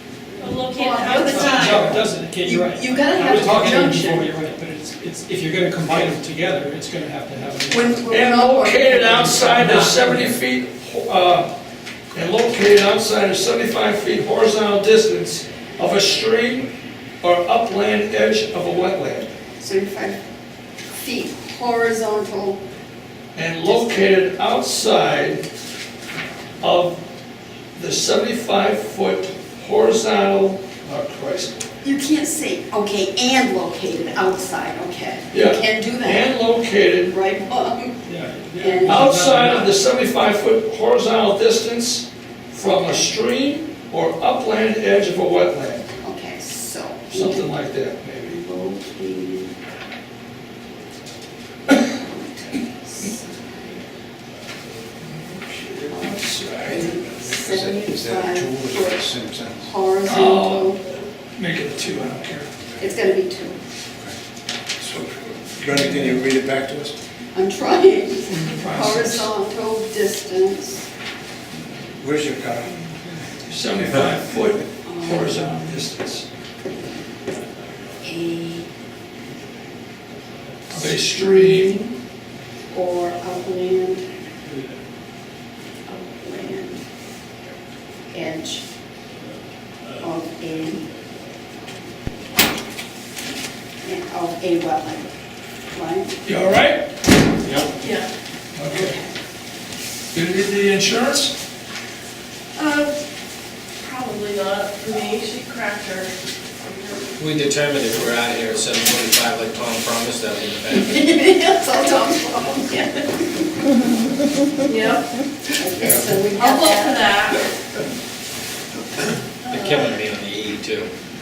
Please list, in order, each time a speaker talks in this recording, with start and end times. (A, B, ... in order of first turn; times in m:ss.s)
0:00.4-0:01.6 A
0:00.6-0:04.3 B
0:01.2-0:08.0 C
0:01.6-0:02.0 D
0:07.6-0:09.7 B
0:08.1-0:11.5 D
0:09.4-0:10.3 C
0:12.1-0:16.7 D
0:17.2-0:19.3 D
0:19.6-0:20.2 B
0:21.0-0:22.6 B
0:23.3-0:25.4 D
0:23.7-0:24.0 B
0:26.6-0:27.0 D
0:27.8-0:31.5 D
0:31.8-0:36.4 B
0:35.3-0:37.1 D
0:37.1-0:38.0 B
0:38.0-0:39.8 C
0:38.6-0:39.1 B
0:38.8-0:45.8 D
0:46.0-0:47.5 B
0:47.1-0:48.4 D
0:48.3-0:49.5 B
0:51.7-0:53.8 B
0:55.0-0:56.9 D
0:55.9-1:00.8 B
0:57.4-0:59.6 E
1:00.0-1:00.7 D
1:01.3-1:02.5 D
1:02.8-1:03.6 B
1:04.8-1:07.0 E
1:05.7-1:06.2 D
1:07.3-1:10.8 B
1:08.2-1:09.3 D
1:12.0-1:12.7 E
1:13.5-1:16.2 D
1:14.8-1:15.7 B
1:18.0-1:18.7 B
1:20.7-1:21.8 D
1:20.8-1:21.9 B
1:22.7-1:24.1 B
1:25.8-1:26.8 B
1:28.1-1:28.6 B
1:30.0-1:30.8 B
1:33.8-1:35.1 B
1:35.7-1:36.1 B
1:36.2-1:36.8 D
1:37.4-1:37.7 F
1:37.8-1:38.1 A
1:38.5-1:39.0 D
1:38.7-1:39.1 B
1:40.1-1:41.3 D
1:42.6-1:43.0 A
1:43.8-1:46.1 A
1:46.7-1:47.0 A
1:47.2-1:51.0 F
1:50.7-1:53.4 B
1:54.7-1:55.1 A
1:55.6-1:57.0 B
1:56.3-1:57.4 A
1:59.5-1:59.8 A
1:59.5-2:00.9 F